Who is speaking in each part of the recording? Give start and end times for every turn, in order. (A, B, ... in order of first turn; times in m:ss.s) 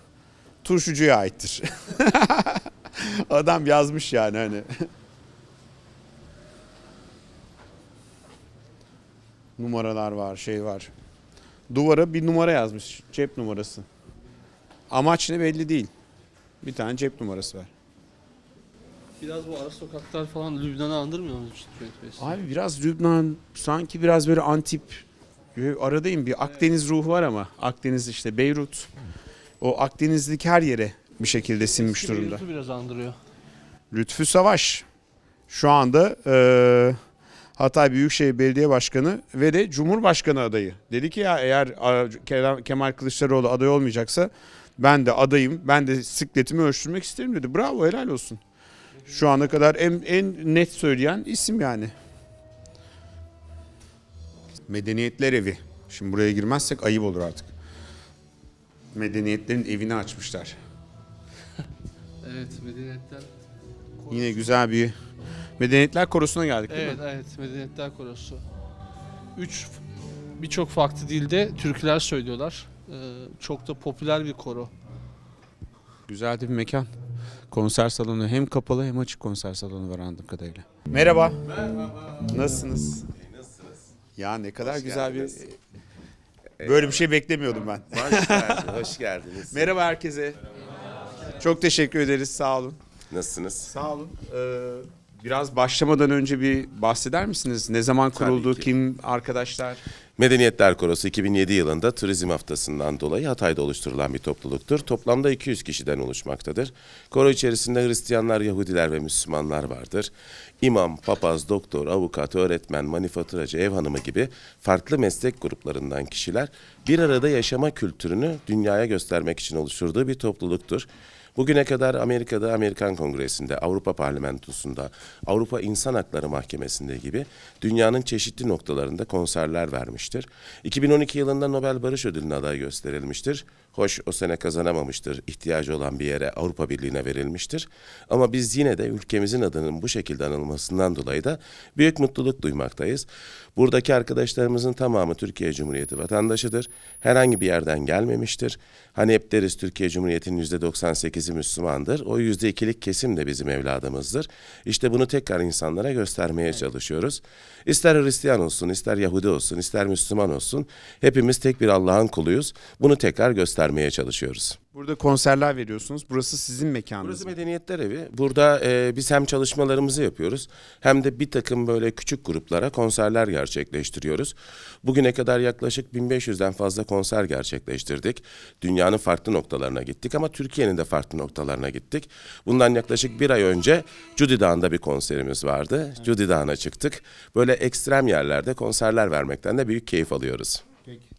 0:00.6-0:04.9 A
0:09.6-0:10.9 A
0:11.7-0:13.8 A
0:14.9-0:15.9 A
0:16.6-0:17.7 A
0:19.2-0:22.3 B
0:22.2-0:25.0 A
0:25.5-0:28.9 A
0:26.4-0:26.7 B
0:29.6-0:32.4 A
0:31.5-0:33.2 B
0:33.9-0:34.8 A
0:35.5-0:37.0 A
0:37.6-0:48.4 A
0:49.1-0:51.9 A
0:54.7-0:57.5 A
0:58.9-1:00.6 A
1:02.2-1:03.3 B
1:04.1-1:05.0 A
1:05.6-1:07.0 A
1:06.7-1:08.4 B
1:09.3-1:09.8 B
1:10.4-1:14.7 B
1:16.1-1:16.9 A
1:17.5-1:21.4 A
1:22.2-1:23.1 A
1:23.2-1:23.5 C
1:24.2-1:25.6 A
1:24.6-1:25.4 C
1:26.6-1:27.0 C
1:26.6-1:28.8 A
1:27.9-1:29.7 C
1:29.5-1:30.4 A
1:31.4-1:32.8 A
1:33.1-1:33.7 C
1:33.6-1:39.8 A
1:38.1-1:38.7 C
1:40.2-2:44.6 C
2:44.7-2:47.3 A
2:47.0-3:10.7 C